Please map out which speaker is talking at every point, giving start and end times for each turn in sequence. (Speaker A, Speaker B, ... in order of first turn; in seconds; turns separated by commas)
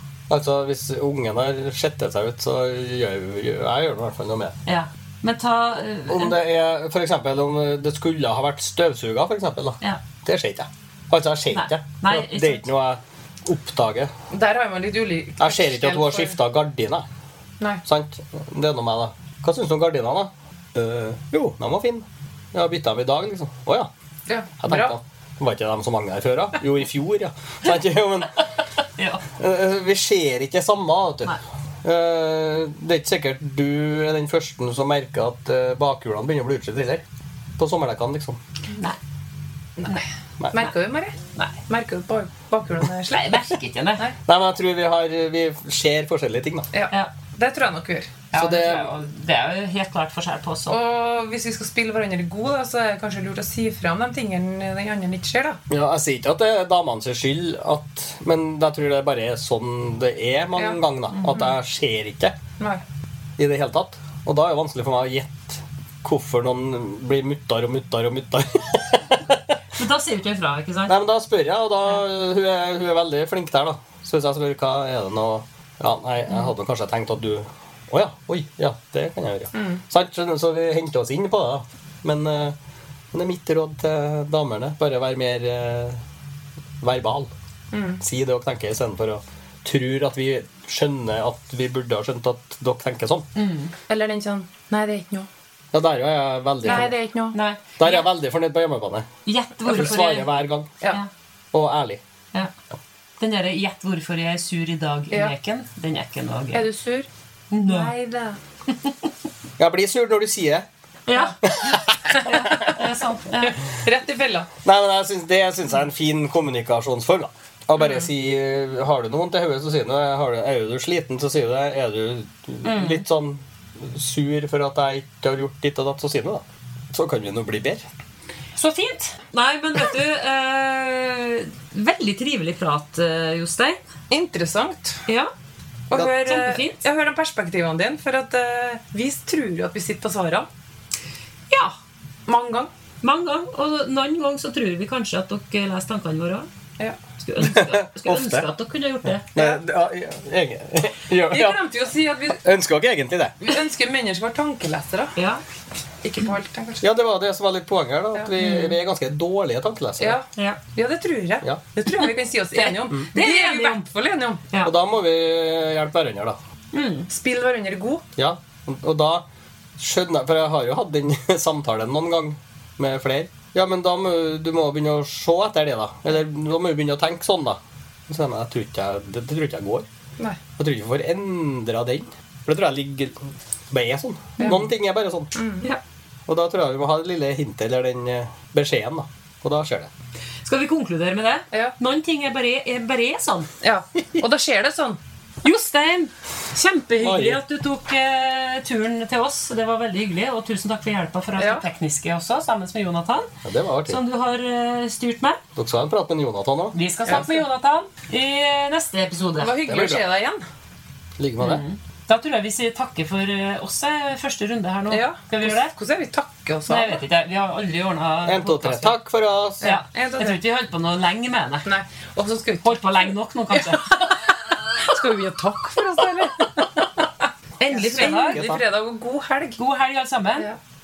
Speaker A: 0.3-4.6, Speaker B: 4.7-6.4, Speaker A: 6.1-14.1, Speaker B: 11.5-12.7, Speaker C: 14.3-16.4, Speaker A: 15.4-17.1, Speaker A: 17.8-23.9, Speaker C: 24.3-24.9, Speaker A: 24.6-28.3, Speaker B: 29.0-29.2, Speaker A: 29.3-37.0, Speaker A: 37.6-38.4, Speaker C: 39.8-41.1, Speaker C: 41.6-43.4, Speaker B: 43.1-44.0, Speaker A: 44.2-46.7, Speaker C: 46.7-48.1, Speaker B: 48.3-50.8, Speaker A: 48.3-48.9, Speaker C: 50.7-55.6, Speaker A: 55.7-62.3, Speaker B: 61.1-61.5, Speaker A: 63.4-69.5, Speaker B: 69.8-71.0, Speaker A: 70.9-82.5, Speaker C: 79.5-79.8, Speaker A: 83.1-86.0, Speaker A: 86.8-87.3, Speaker C: 87.7-88.0, Speaker A: 88.0-93.2, Speaker B: 93.3-93.7, Speaker C: 93.9-95.3, Speaker A: 95.7-96.9, Speaker C: 96.6-97.4, Speaker B: 96.6-98.1, Speaker A: 97.8-99.1, Speaker B: 99.2-100.3, Speaker A: 99.7-100.7, Speaker A: 101.5-102.0, Speaker B: 103.2-106.6, Speaker C: 106.5-107.1, Speaker B: 107.5-107.9, Speaker C: 107.6-108.4, Speaker A: 109.6-110.7, Speaker B: 111.1-113.6, Speaker A: 111.4-112.2, Speaker C: 112.1-112.8, Speaker C: 113.4-114.5, Speaker A: 114.6-127.8, Speaker B: 122.6-123.0, Speaker B: 128.6-133.8, Speaker C: 134.1-135.0, Speaker C: 135.9-140.5, Speaker B: 135.9-136.8, Speaker B: 141.5-141.7, Speaker C: 142.3-142.7, Speaker B: 143.0-146.5, Speaker B: 147.2-149.3, Speaker A: 147.4-148.5, Speaker A: 149.3-151.6, Speaker C: 151.3-152.4, Speaker A: 152.3-153.3, Speaker C: 153.4-155.1, Speaker B: 155.2-155.4, Speaker C: 156.0-156.9, Speaker A: 156.8-160.2, Speaker B: 158.4-158.8, Speaker C: 160.0-164.4, Speaker B: 162.6-163.8, Speaker A: 164.6-166.4, Speaker B: 166.7-167.1, Speaker C: 167.1-168.0, Speaker A: 168.2-169.2, Speaker A: 169.8-179.8, Speaker A: 180.6-185.3, Speaker C: 184.4-184.6, Speaker C: 185.3-185.7, Speaker A: 186.3-189.9, Speaker B: 190.4-193.5, Speaker C: 193.6-195.0, Speaker B: 195.4-203.3, Speaker A: 197.0-197.4, Speaker C: 201.4-201.7, Speaker A: 203.4-204.0, Speaker B: 203.9-205.4, Speaker A: 205.6-207.3, Speaker B: 206.7-209.6, Speaker C: 207.1-207.4, Speaker C: 209.3-210.4, Speaker A: 209.7-210.0, Speaker A: 211.2-211.6, Speaker B: 211.4-215.7, Speaker C: 214.9-217.0, Speaker B: 216.7-218.9, Speaker A: 218.2-219.7, Speaker C: 219.6-220.4, Speaker B: 219.6-221.7, Speaker C: 221.6-224.2, Speaker B: 222.6-224.0, Speaker C: 224.8-227.1, Speaker B: 227.6-228.4, Speaker C: 227.7-229.6, Speaker A: 227.8-228.6, Speaker B: 229.6-230.5